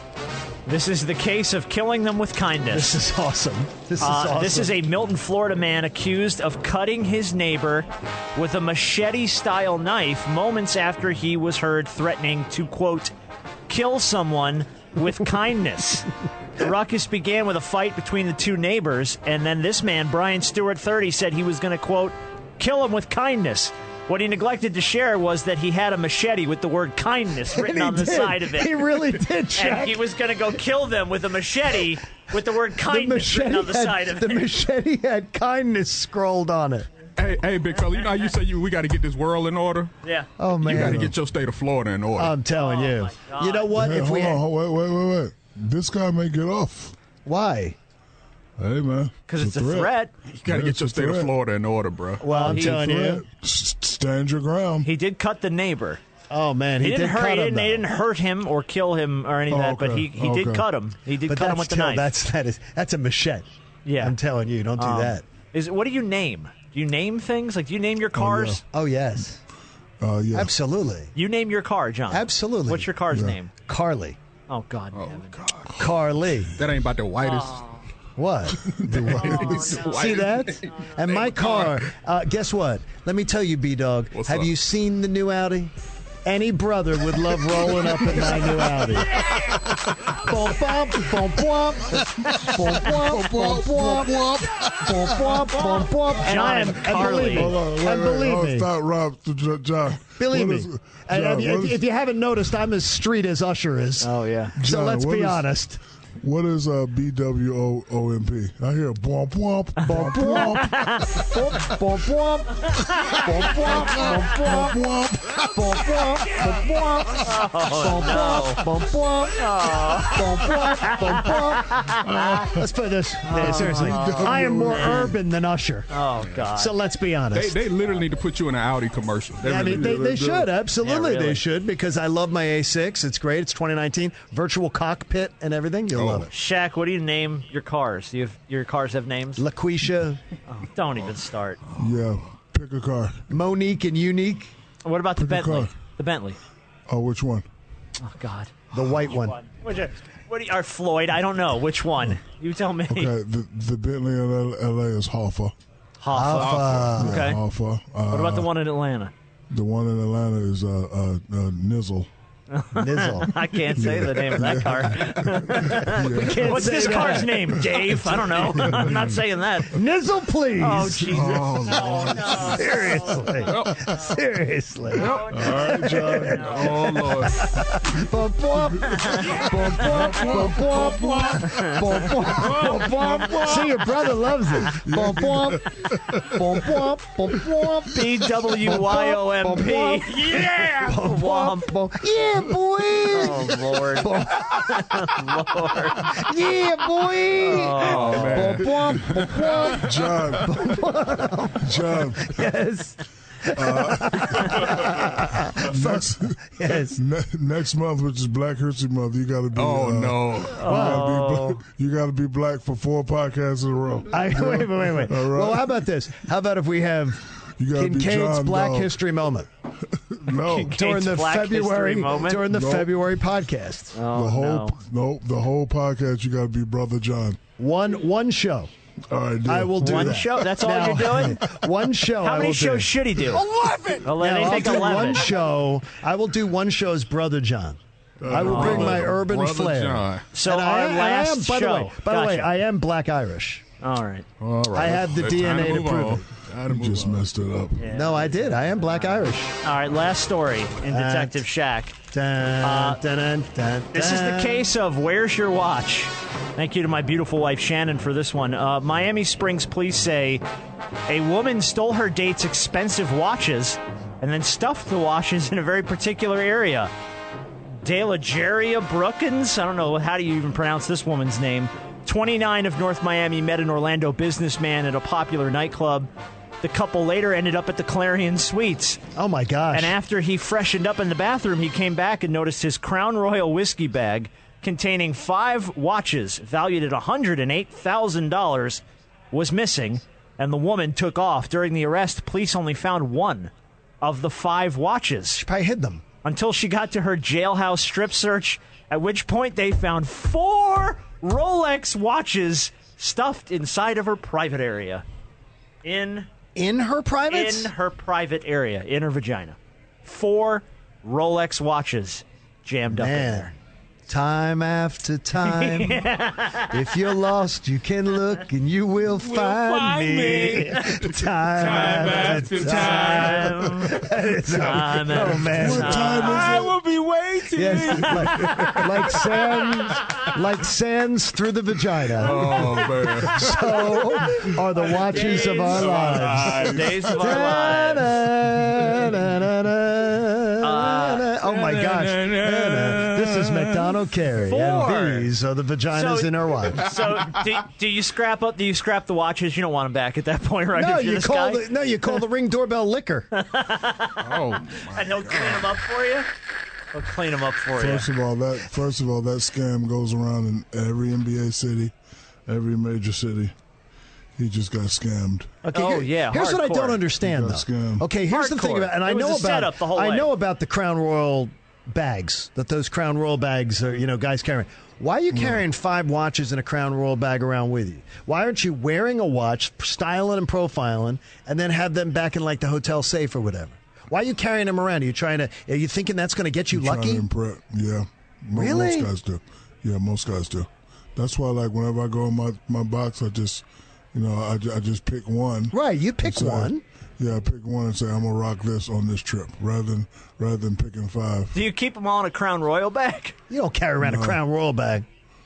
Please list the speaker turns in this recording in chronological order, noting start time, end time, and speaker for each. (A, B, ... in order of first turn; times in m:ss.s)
0:00.7-0:03.0 A
0:02.7-0:04.8 B
0:04.0-0:13.1 A
0:13.7-0:16.1 A
0:16.6-0:28.9 A
0:27.5-0:30.0 B
0:29.6-0:34.5 A
0:32.7-0:36.9 B
0:37.2-0:39.9 C
0:40.0-0:40.3 A
0:40.4-0:41.1 B
0:40.6-0:42.4 C
0:40.7-0:41.1 D
0:42.2-0:44.4 B
0:42.6-0:43.7 A
0:43.7-0:47.0 D
0:47.3-0:47.8 B
0:48.6-0:51.3 D
0:49.3-0:50.1 A
0:50.4-0:52.2 C
0:52.2-0:53.2 B
0:52.3-0:54.9 D
0:52.3-0:52.9 A
0:54.8-0:56.0 A
0:56.3-0:57.9 B
0:56.8-1:02.1 A
0:59.5-1:00.7 D
1:01.3-1:03.5 B
1:03.8-1:04.2 A
1:04.0-1:05.2 B
1:04.8-1:08.6 A
1:08.2-1:08.6 D
1:08.7-1:09.4 B
1:10.0-1:10.5 D
1:10.3-1:11.1 B
1:11.2-1:13.5 A
1:12.1-1:12.9 B
1:13.1-1:13.4 D
1:13.6-1:14.2 B
1:14.5-1:15.4 A
1:14.9-1:15.8 C
1:15.8-1:16.5 B
1:16.6-1:17.6 C
1:17.2-1:17.8 A
1:18.2-1:25.7 B
1:18.7-1:19.6 D
1:19.2-1:21.8 C
1:19.2-1:20.0 A
1:24.1-1:24.5 C
1:26.2-1:29.2 B
1:30.0-1:34.1 B
1:32.2-1:35.6 D
1:34.8-1:38.7 B
1:36.2-1:37.5 A
1:36.9-1:41.8 D
1:40.2-1:45.8 B
1:44.0-1:44.6 A
1:44.6-1:45.5 D
1:46.2-1:51.0 D
1:49.8-1:54.8 B
1:50.0-1:51.3 A
1:53.3-1:56.5 D
1:55.5-2:01.8 B
1:57.2-1:58.6 A
1:59.4-2:02.4 A
2:02.0-2:02.7 D
2:02.5-2:05.9 B
2:03.3-2:04.9 A
2:03.3-2:05.1 D
2:05.9-2:06.7 A
2:06.6-2:07.6 B
2:07.3-2:10.3 C
2:09.4-2:16.3 B
2:09.5-2:10.5 D
2:10.8-2:11.4 A
2:15.9-2:16.3 C
2:16.3-2:19.4 A
2:19.4-2:20.2 B
2:20.5-2:21.6 A
2:21.8-2:23.2 D
2:23.3-2:24.5 B
2:24.8-2:26.4 A
2:25.2-2:25.7 D
2:26.9-2:27.5 D
2:28.0-2:28.5 A
2:28.7-2:29.4 B
2:29.4-2:33.1 A
2:32.9-2:35.5 D
2:36.0-2:37.4 A
2:36.1-2:37.2 B
2:36.4-2:38.5 D
2:36.5-2:36.8 C
2:38.1-2:39.1 A
2:39.5-2:42.1 D
2:42.5-2:49.8 A
2:42.8-2:43.4 B
2:43.7-2:49.2 D
2:45.8-2:47.6 B
2:49.7-2:51.6 B
2:50.6-2:53.5 A
2:51.1-2:52.6 D
2:51.1-2:52.5 C
2:52.5-3:08.0 B
2:53.5-2:53.9 C
2:55.0-2:57.4 C
2:55.0-2:56.6 A
2:55.3-2:57.3 D
2:58.9-3:03.2 D
3:02.2-3:03.8 C
3:04.7-3:06.9 D
3:07.9-3:11.7 A
3:08.6-3:14.9 B
3:13.1-3:16.2 A
3:16.0-3:27.0 B
3:17.4-3:18.7 A
3:17.8-3:19.5 C
3:19.1-3:20.8 D
3:21.6-3:22.4 D
3:23.5-3:35.8 D
3:29.6-3:30.6 C
3:30.6-3:31.6 A
3:30.7-3:31.3 B
3:34.1-3:37.2 B
3:37.4-3:39.0 D
3:37.8-3:39.5 B
3:40.0-3:40.8 D
3:40.3-3:42.5 A
3:40.7-3:44.0 B
3:42.4-3:43.0 D
3:44.0-3:44.8 A
3:44.1-3:47.4 D
3:47.6-3:48.7 B
3:49.1-3:50.4 D
3:49.5-3:53.0 B
3:49.8-3:51.4 A
3:52.2-3:53.4 A
3:53.6-3:54.0 C
3:54.0-3:55.3 A
3:54.2-4:03.6 B
3:58.2-3:59.2 D
3:58.2-4:00.3 C
3:58.4-3:59.0 A
4:00.3-4:02.6 A
4:03.8-4:04.3 A
4:04.4-4:07.3 C
4:04.7-4:06.2 B
4:06.7-4:07.9 D
4:07.8-4:12.0 A
4:07.9-4:09.6 B
4:10.9-4:11.4 B
4:12.1-4:14.7 B
4:12.6-4:13.0 A
4:13.9-4:20.4 A
4:21.1-4:26.9 A
4:27.8-4:36.1 A
4:36.6-4:39.0 A
4:39.2-4:40.0 B
4:39.7-4:55.4 A
4:55.4-4:56.0 B
4:56.2-5:05.0 A
5:05.8-5:06.3 A
5:06.6-5:07.7 B
5:07.3-5:13.5 A
5:12.9-5:13.6 B
5:14.1-5:16.1 B
5:15.4-5:16.8 A
5:16.7-5:26.2 B
5:19.2-5:20.9 E
5:21.5-5:23.5 E
5:21.7-5:24.0 A
5:24.5-5:26.6 A
5:25.5-5:26.8 D
5:26.2-5:28.0 E
5:27.5-5:46.9 B
5:32.2-5:33.6 C
5:34.9-5:38.1 A
5:35.7-5:37.4 C
5:40.6-5:41.3 A
5:41.5-5:44.0 C
5:44.4-5:45.3 A
5:45.9-5:51.7 A
5:50.8-5:53.3 B
5:53.4-5:54.3 A
5:54.2-5:55.7 C
5:54.9-5:56.3 A
5:56.9-5:58.1 A
5:57.8-6:01.9 D
6:02.5-6:03.6 D
6:04.4-6:05.6 D
6:05.7-6:27.2 B
6:05.7-6:07.0 A
6:07.2-6:08.1 D
6:08.3-6:10.3 A
6:15.3-6:15.6 D
6:26.7-6:41.6 D
6:28.6-6:29.1 B
6:35.7-6:36.8 B
6:41.5-6:43.4 A
6:43.5-6:45.0 B
6:44.0-6:44.4 D